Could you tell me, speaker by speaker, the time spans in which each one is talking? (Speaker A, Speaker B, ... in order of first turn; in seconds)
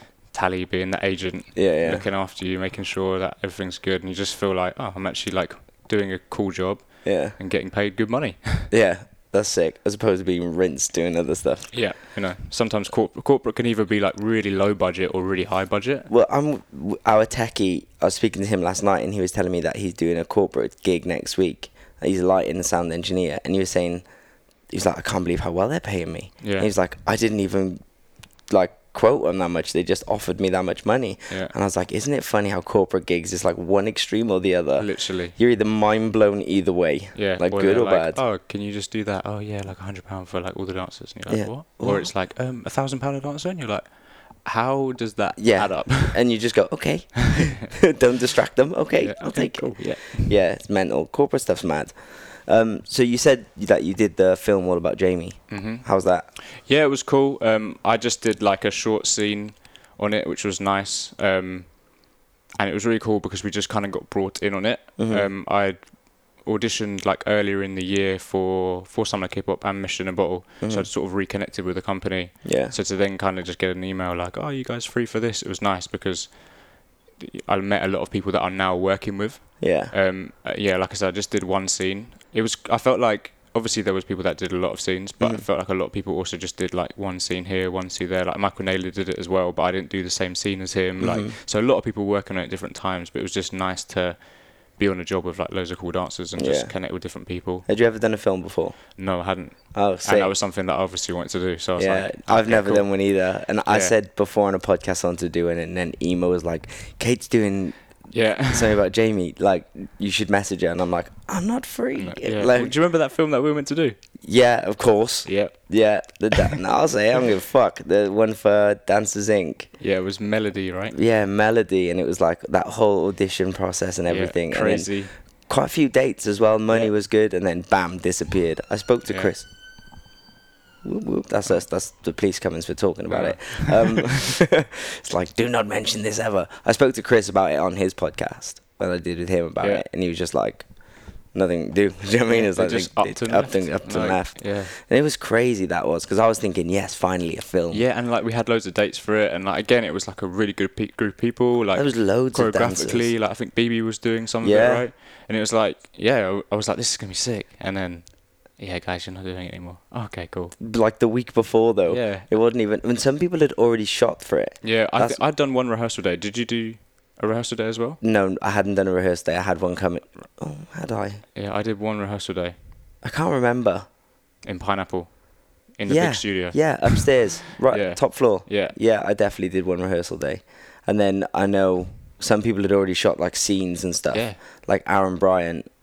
Speaker A: 0.3-8.7, 11.7-16.1, 26.4-26.7, 34.8-35.4, 37.1-46.2, 49.0-50.4, 55.5-62.0, 62.6-65.8, 66.3-76.4, 77.2-94.2, 94.8-97.7, 99.0-102.9, 103.7-103.9, 108.1-108.8, 112.0-114.0, 115.3-115.6, 119.8-121.0, 124.1-125.1, 129.1-129.3, 133.1-134.1, 142.3-144.7, 147.7-160.6, 161.9-162.3, 164.6-168.0, 171.3-172.6, 174.4-175.1, 175.7-177.1, 177.7-178.8, 184.1-184.4
Speaker B: 1.6-2.0, 7.0-7.3, 8.7-11.7, 16.1-24.1, 24.7-27.8, 28.5-38.2, 41.3-42.1, 45.4-56.3, 65.0-65.3, 70.6-70.9, 72.4-72.8, 79.6-79.9, 91.0-91.3, 96.4-96.7, 97.7-98.8, 99.7-100.3, 101.8-107.8, 108.5-112.8, 114.2-119.7, 120.9-129.5, 130.8-140.7, 141.3-147.8, 151.7-153.1, 154.4-154.8, 160.6-165.2, 168.0-171.2, 173.0-173.9, 175.9-185.7